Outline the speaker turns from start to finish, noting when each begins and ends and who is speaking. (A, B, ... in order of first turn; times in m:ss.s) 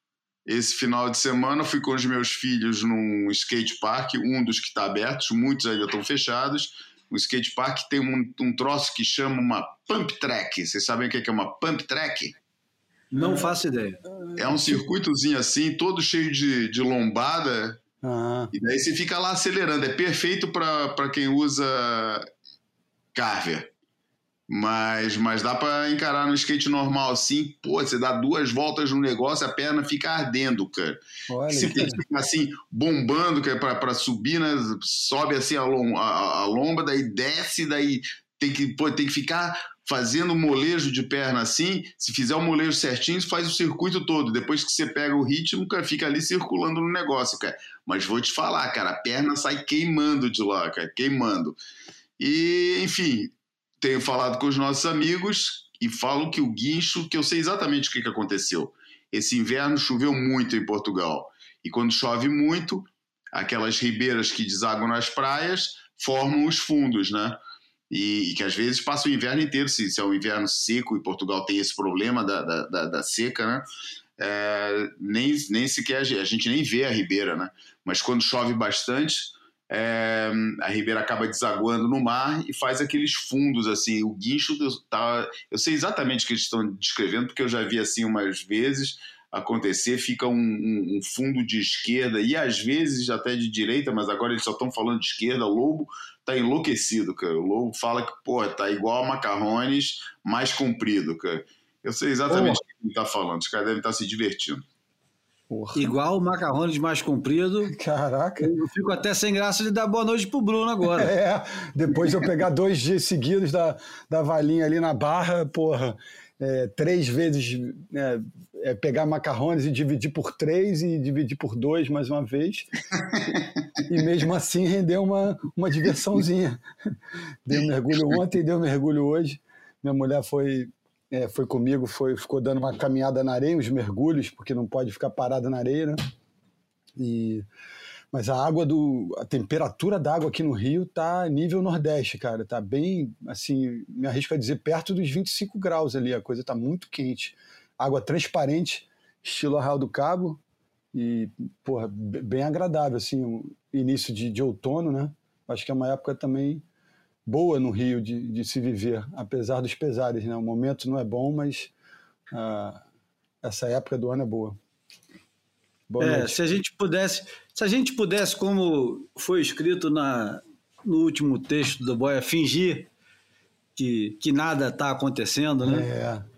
0:00.4-0:12.4 A
0:13.1-0:14.0 B
0:13.1-0:13.5 C
0:14.1-0:14.8 C
0:14.4-0:17.8 A
0:18.0-0:18.5 C
0:18.5-0:22.3 A
0:23.1-0:23.7 A
0:24.5-0:51.6 A
0:31.3-0:32.0 C
0:52.2-1:07.4 A
1:07.9-1:13.6 A
1:14.2-1:44.6 A
1:42.3-1:42.6 C
1:45.5-1:45.9 C
1:45.7-1:47.8 B
1:47.7-1:48.5 C
1:48.4-1:51.1 B
1:50.9-2:02.7 C
2:03.1-2:03.4 A
2:03.9-2:06.6 C
2:07.4-2:16.0 C
2:17.0-2:17.5 C
2:18.1-2:30.4 C
2:30.9-2:36.6 C
2:37.2-2:41.7 C
2:42.3-2:42.8 C
2:43.4-2:44.6 C
2:45.9-2:46.4 C
2:46.0-2:52.9 B
2:53.8-2:55.9 B
2:55.6-2:56.2 C